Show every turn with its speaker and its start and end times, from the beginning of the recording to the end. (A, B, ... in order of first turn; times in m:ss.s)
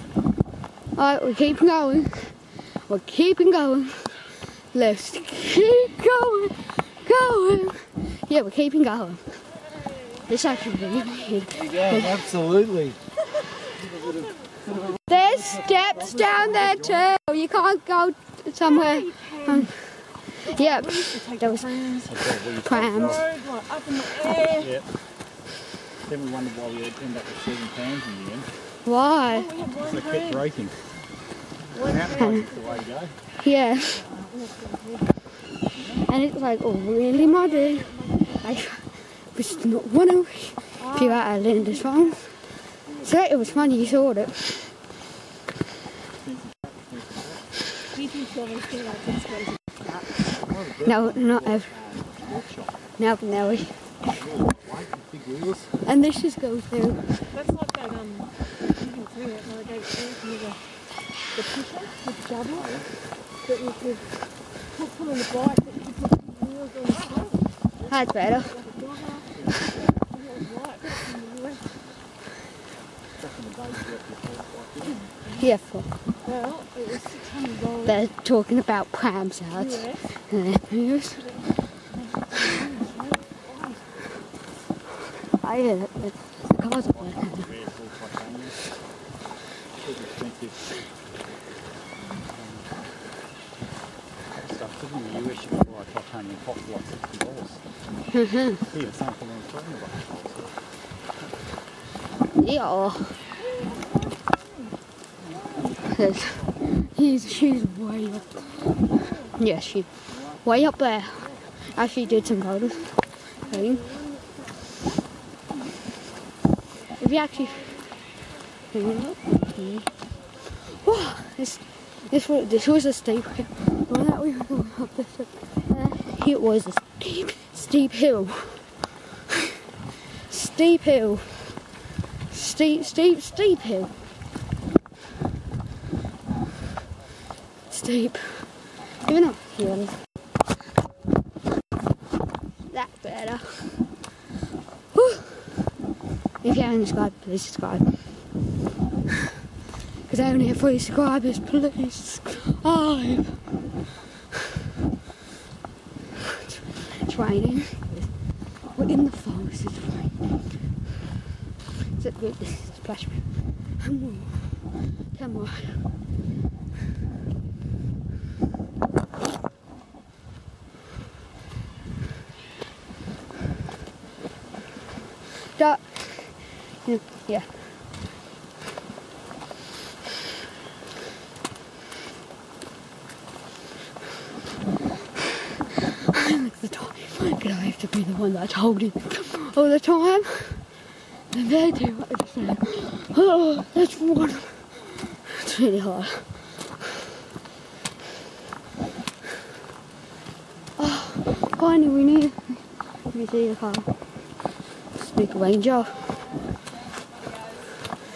0:00.9-0:09.4 A
0:10.2-0:12.3 A
0:11.8-0:13.0 B
0:13.8-0:14.2 C
0:15.0-0:21.7 A
0:16.3-0:17.1 B
0:18.6-0:19.7 C
0:20.4-0:22.1 C
0:22.0-0:23.3 B
0:22.6-0:23.2 A
0:23.0-0:24.7 C
0:24.6-0:24.9 B
0:26.0-0:28.5 B
0:28.8-0:29.5 A
0:29.3-0:30.4 C
0:29.8-0:30.8 B
0:31.7-0:33.1 B
0:31.7-0:32.8 C
0:32.2-0:32.5 A
0:33.4-0:34.0 A
0:34.0-0:35.0 C
0:35.7-0:36.1 B
0:36.1-0:42.3 A
0:37.1-0:38.4 C
0:40.8-0:42.0 C
0:43.0-0:44.4 A
0:46.2-0:47.4 B
0:47.9-0:49.6 C
0:49.9-0:52.7 B
0:50.8-0:51.7 A
0:53.0-0:53.8 A
0:54.1-0:55.7 B
0:55.8-0:57.1 A
0:57.3-1:00.6 C
1:01.3-1:02.7 C
1:02.5-1:02.9 B
1:03.4-1:04.0 C
1:04.7-1:07.4 C
1:07.9-1:08.5 A
1:08.3-1:09.3 C
1:09.4-1:09.6 B
1:09.9-1:11.7 C
1:13.2-1:15.0 B
1:15.4-1:15.9 A
1:16.2-1:18.0 C
1:17.8-1:21.2 A
1:19.5-1:20.0 C
1:21.9-1:23.8 C
1:25.4-1:27.5 A
1:26.8-1:28.6 B
1:29.8-1:30.6 B
1:32.3-1:32.7 B
1:34.3-1:37.6 B
1:38.1-1:38.6 A
1:38.7-1:40.6 B
1:42.4-1:43.2 A
1:43.4-1:44.5 C
1:45.8-1:48.6 A
1:49.3-1:49.9 A
1:50.4-1:53.8 A
1:53.5-1:54.4 C
1:57.0-1:57.7 A
1:57.0-1:57.8 C
1:58.7-1:59.9 A
2:00.5-2:08.7 A
2:10.2-2:11.6 A
2:12.3-2:13.9 A
2:17.7-2:19.9 A
2:22.7-2:23.7 A
2:24.9-2:25.5 A
2:26.4-2:28.0 A
2:30.0-2:33.5 A
2:36.4-2:38.1 A
2:38.7-2:40.2 A
2:42.0-2:43.2 A
2:43.8-2:45.8 A
2:55.5-2:57.5 A
3:06.0-3:10.6 A
3:11.3-3:16.3 A
3:20.8-3:23.9 A
3:25.0-3:26.1 A
3:26.9-3:27.6 C